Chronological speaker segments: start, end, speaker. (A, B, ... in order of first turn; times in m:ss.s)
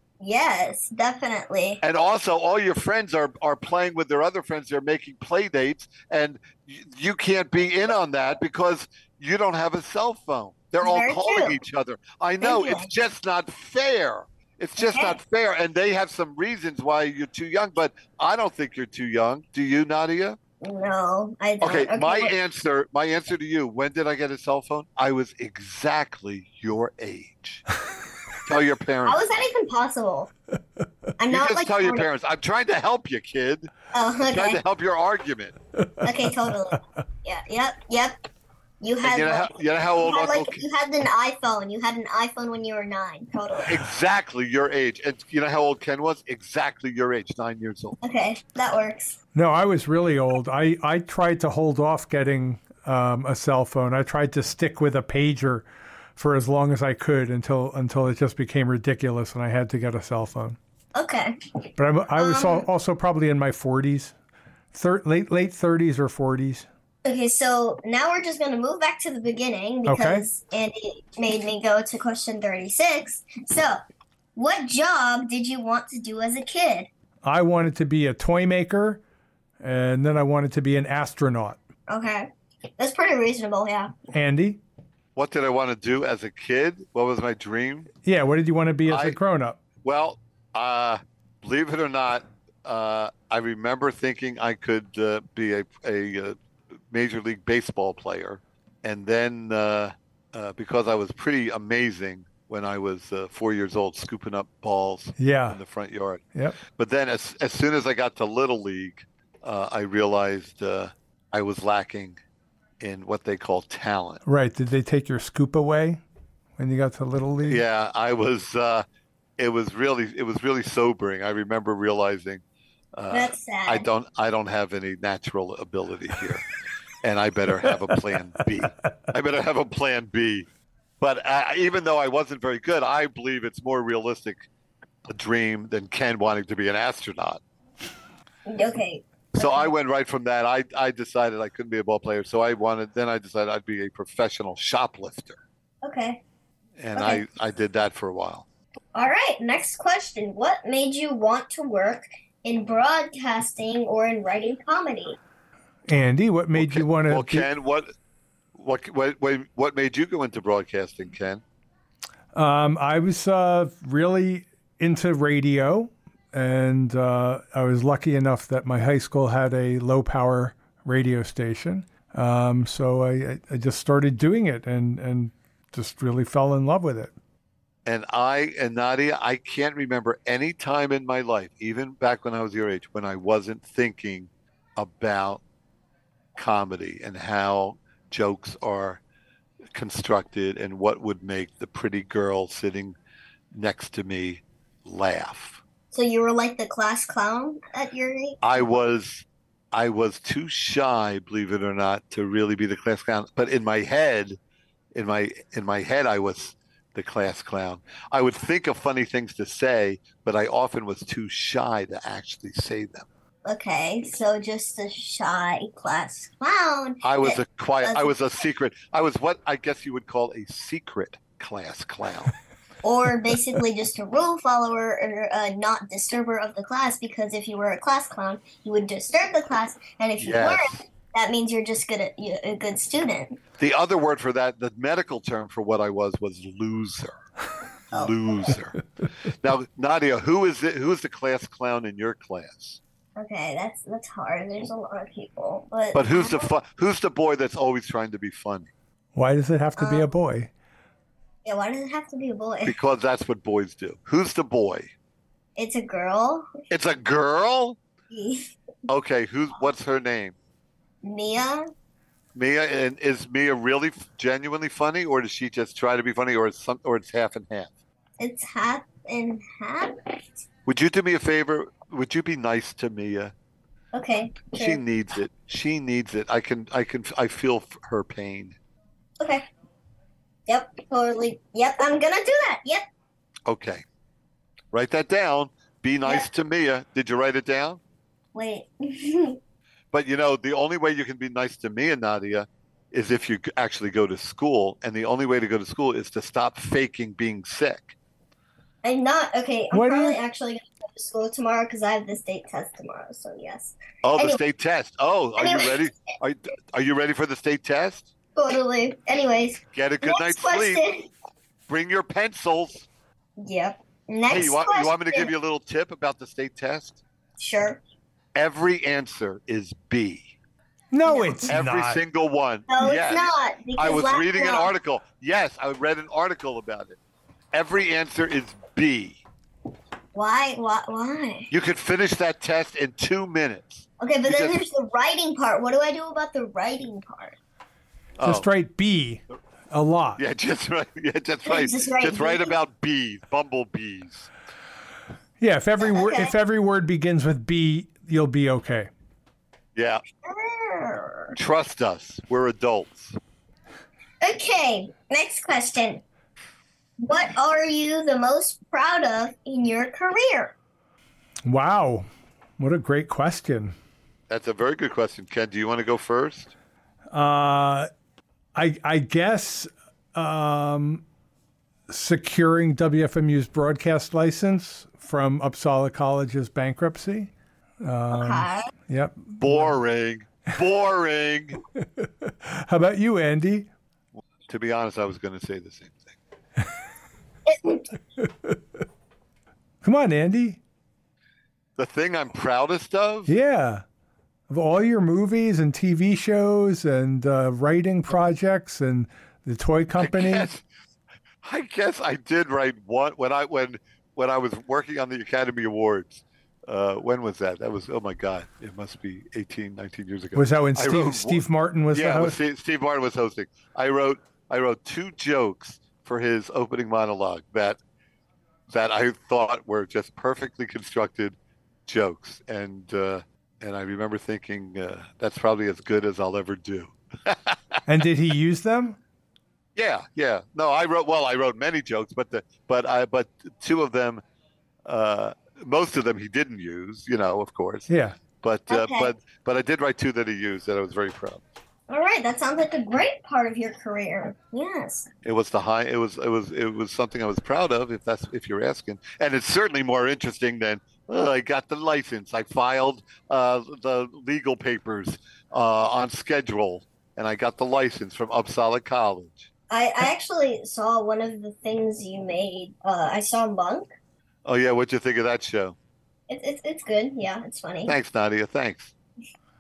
0:00.2-0:01.8 A
0:01.8-0:20.4 B
0:10.8-0:11.6 A
0:12.4-0:12.9 A
0:14.8-0:15.2 A
0:20.6-0:22.3 A
0:21.6-0:27.7 B
0:28.4-0:29.4 B
0:29.0-0:30.3 A
0:31.2-0:32.1 A
0:31.3-0:33.7 B
0:33.9-0:34.6 A
0:34.3-0:35.6 B
0:36.0-0:38.2 A
0:38.8-0:43.8 A
0:39.0-0:40.6 B
0:43.7-0:48.0 B
0:48.0-0:49.2 A
0:49.4-0:55.7 C
0:56.2-1:00.6 C
1:01.0-1:01.4 A
1:01.8-1:04.1 C
1:02.2-1:02.7 A
1:04.7-1:06.7 C
1:07.0-1:13.8 A
1:09.9-1:10.3 C
1:14.4-1:16.9 A
1:17.2-1:19.0 C
1:19.6-1:21.6 C
1:21.9-1:24.0 A
1:24.1-1:24.6 C
1:25.2-1:27.9 B
1:28.0-1:29.6 C
1:28.9-1:29.2 B
1:29.8-1:36.4 B
1:36.9-1:52.2 B
1:45.2-1:45.6 C
1:52.8-1:54.2 B
1:54.2-1:56.0 C
1:56.6-1:57.6 C
1:57.4-1:58.8 B
1:59.4-2:02.4 B
2:03.0-2:06.4 B
2:03.1-2:03.9 A
2:07.0-2:10.5 B
2:11.0-2:14.5 B
2:15.1-2:17.4 B
2:18.5-2:19.7 A
2:19.4-2:25.4 B
2:25.8-2:26.2 A
2:26.8-2:28.5 B
2:27.0-2:27.2 A
2:29.0-2:35.2 A
2:35.9-2:37.5 C
2:36.5-2:37.9 B
2:38.6-2:41.4 B
2:42.3-2:57.1 C
2:57.9-3:05.4 B
3:06.4-3:09.0 B
3:09.7-3:13.0 B
3:13.5-3:15.6 B
3:15.9-3:18.4 A
3:18.4-3:24.4 B
3:24.9-3:33.1 B
3:33.5-3:38.1 A
3:37.0-3:42.3 B
3:42.8-3:53.4 A
3:50.2-3:50.8 B
3:53.6-3:57.2 B
3:57.9-3:58.5 A
3:57.9-3:58.8 B
3:59.3-4:02.8 B
4:03.2-4:06.5 A
4:05.9-4:08.7 B
4:09.1-4:10.5 C
4:09.8-4:10.1 A
4:11.4-4:12.8 A
4:12.6-4:14.9 B
4:15.6-4:16.5 A
4:16.7-4:17.8 B
4:18.1-4:18.6 A
4:18.9-4:20.4 B
4:21.0-4:21.7 A
4:22.4-4:27.7 B
4:28.2-4:30.2 A
4:30.7-4:33.3 B
4:33.9-4:34.8 A
4:34.5-4:38.6 B
4:39.2-4:39.4 A
4:40.5-4:42.8 A
4:43.5-4:43.8 B
4:44.7-4:47.8 B
4:48.4-4:49.4 A
4:49.9-4:58.0 B
4:58.8-5:04.4 A
4:59.7-5:00.2 C
5:04.0-5:08.1 B
5:05.4-5:06.0 A
5:08.4-5:11.1 A
5:09.7-5:10.8 B
5:11.7-5:12.9 B
5:13.4-5:15.3 A
5:14.3-5:17.0 B
5:17.4-5:17.8 A
5:18.4-5:20.3 B
5:20.9-5:22.0 C
5:21.1-5:21.5 A
5:21.5-5:27.0 B
5:22.7-5:24.7 A
5:27.5-5:29.2 B
5:30.1-5:31.5 A
5:31.5-5:34.6 B
5:34.0-5:37.4 A
5:38.2-5:38.5 B
5:38.2-5:40.2 C
5:40.2-5:44.3 B
5:41.4-5:42.5 A
5:45.4-5:48.9 C
5:45.8-5:46.3 A
5:49.8-5:50.0 B
5:50.2-5:51.4 A
5:51.4-5:53.2 B
5:54.2-5:56.0 A
5:57.0-6:00.6 A
6:01.4-6:02.1 C
6:02.6-6:03.7 C
6:04.3-6:06.6 B
6:07.1-6:07.9 C
6:08.6-6:11.0 C
6:11.9-6:17.3 C
6:17.8-6:19.7 C
6:18.1-6:18.7 A
6:19.4-6:21.6 B
6:22.0-6:23.7 C
6:24.5-6:26.2 B
6:27.5-6:27.8 A
6:29.8-6:30.6 C
6:31.8-6:33.3 B
6:33.3-6:33.8 C
6:34.5-6:40.5 C
6:40.0-6:40.6 B
6:41.4-6:57.8 B
6:50.4-6:52.4 C
6:58.7-7:07.6 B
7:07.9-7:09.0 C
7:09.8-7:14.2 B
7:14.9-7:21.4 B
7:17.9-7:18.2 C
7:18.7-7:19.1 A
7:21.9-7:25.1 A
7:25.2-7:39.5 B
7:39.7-7:43.9 A
7:44.4-7:45.8 B
7:46.3-7:48.0 A
7:47.9-7:48.9 B